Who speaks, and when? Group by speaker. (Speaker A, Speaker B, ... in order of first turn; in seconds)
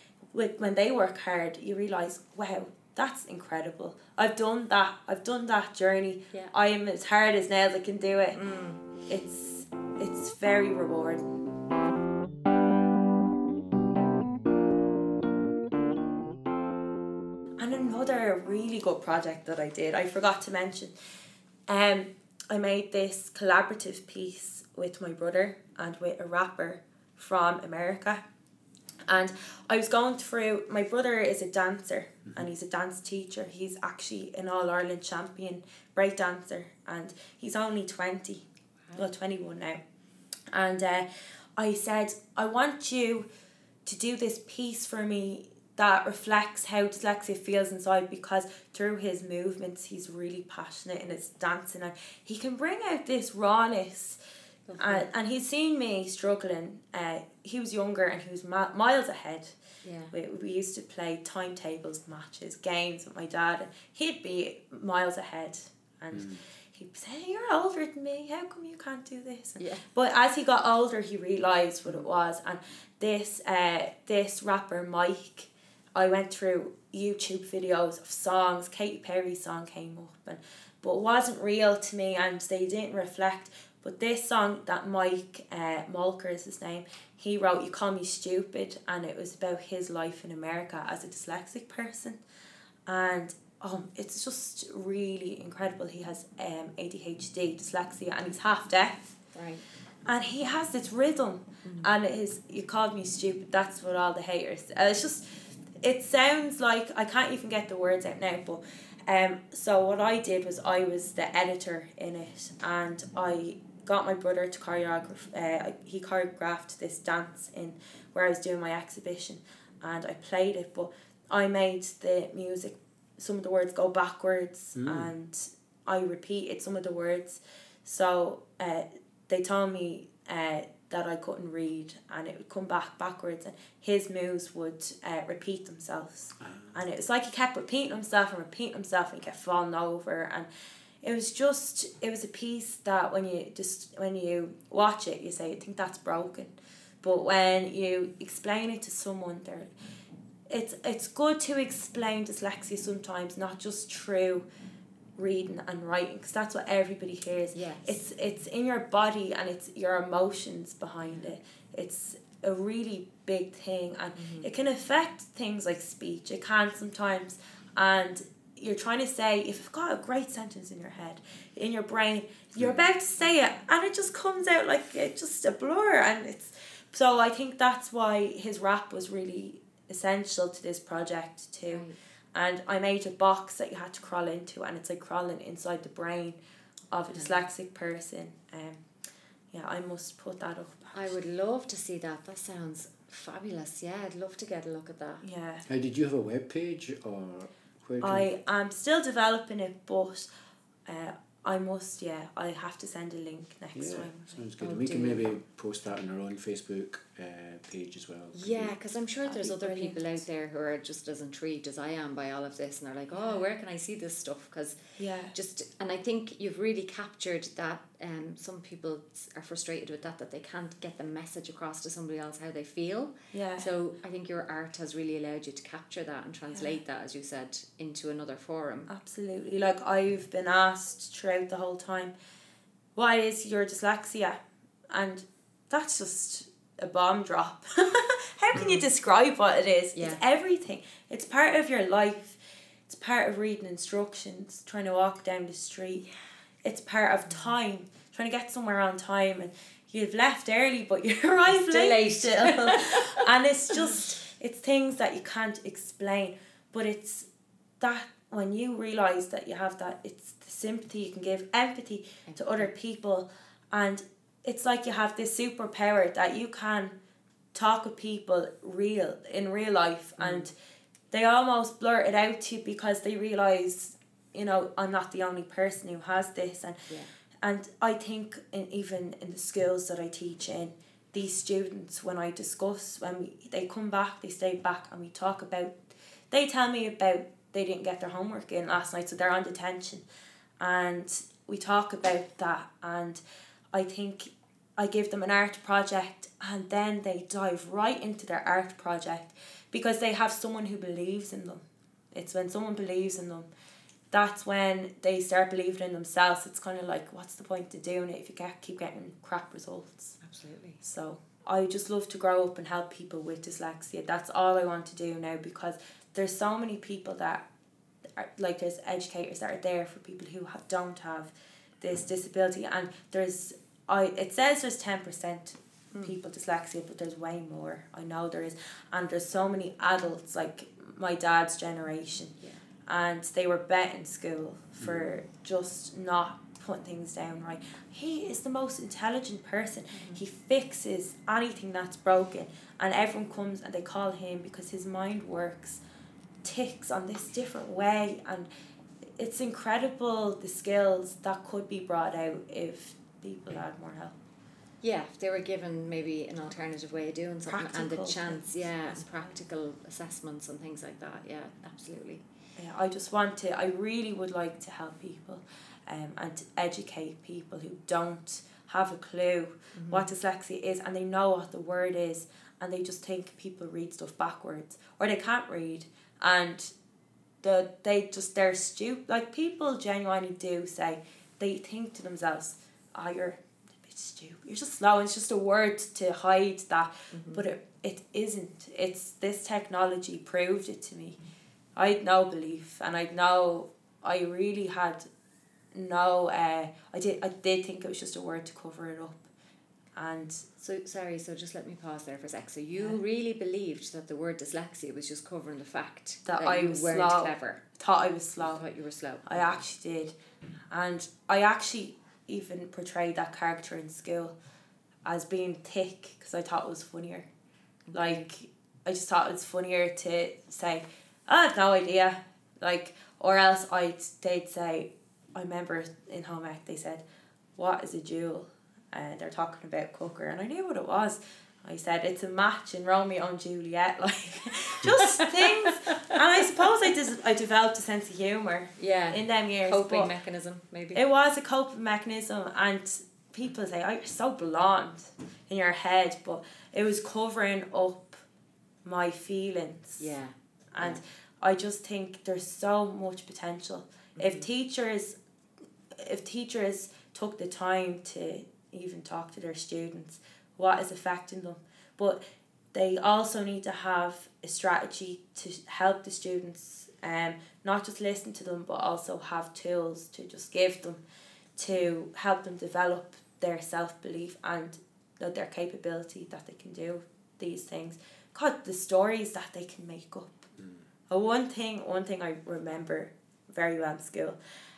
Speaker A: 0.3-8.4, 9.1-11.3, 17.6-20.9, 21.7-28.2, 29.1-38.4, 38.9-39.8, 40.5-43.3, 43.9-54.2, 54.8-59.5, 60.1-92.2, 92.9-99.2, 100.0-105.2, 105.8-140.5, 141.0-149.7, 150.5-154.4, 155.2-186.4, 186.9-188.8, 189.5-191.1, 195.2-195.6, 198.0-200.3, 200.8-204.4, 209.2-210.2, 213.1-213.4, 215.0-215.3, 223.3-223.7, 228.9-232.1, 232.9-234.4, 234.9-246.1, 246.6-257.3, 257.8-266.9, 267.5-270.5, 271.1-276.8, 277.4-290.0, 290.6-293.2, 293.7-303.5, 304.1-310.1, 310.8-317.4, 318.1-332.3, 332.9-345.8, 346.4-348.5, 349.2-354.1, 357.5-359.3, 362.6-376.7, 377.4-391.2, 391.8-395.1, 395.7-399.3, 399.9-400.4, 406.2-408.6, 409.2-410.1, 410.7-414.4, 415.0-417.3, 417.9-427.0, 427.6-440.1, 440.9-448.2, 448.8-450.0, 450.7-455.1, 455.9-462.2, 462.7-471.0, 471.6-480.5, 481.1-484.4
Speaker B: 8.3-8.8, 54.7-55.1, 59.8-60.1, 69.6-69.8, 99.3-99.6, 157.5-158.0, 164.2-164.5, 181.7-181.9, 190.9-195.2, 204.6-205.3, 208.3-214.8, 215.3-228.9, 238.5-238.8, 251.7-253.2, 262.3-262.7, 270.2-270.5, 310.2-310.8, 339.9-340.2, 354.8-362.2, 369.8-370.1, 387.1-387.4, 400.6-407.6, 408.4-409.4, 417.9-418.2, 434.9-435.7, 438.8-441.0, 450.0-451.0, 454.2-454.5
Speaker C: 66.1-66.4, 124.8-125.1, 136.4-136.7, 195.7-198.3, 203.7-208.8, 334.8-335.1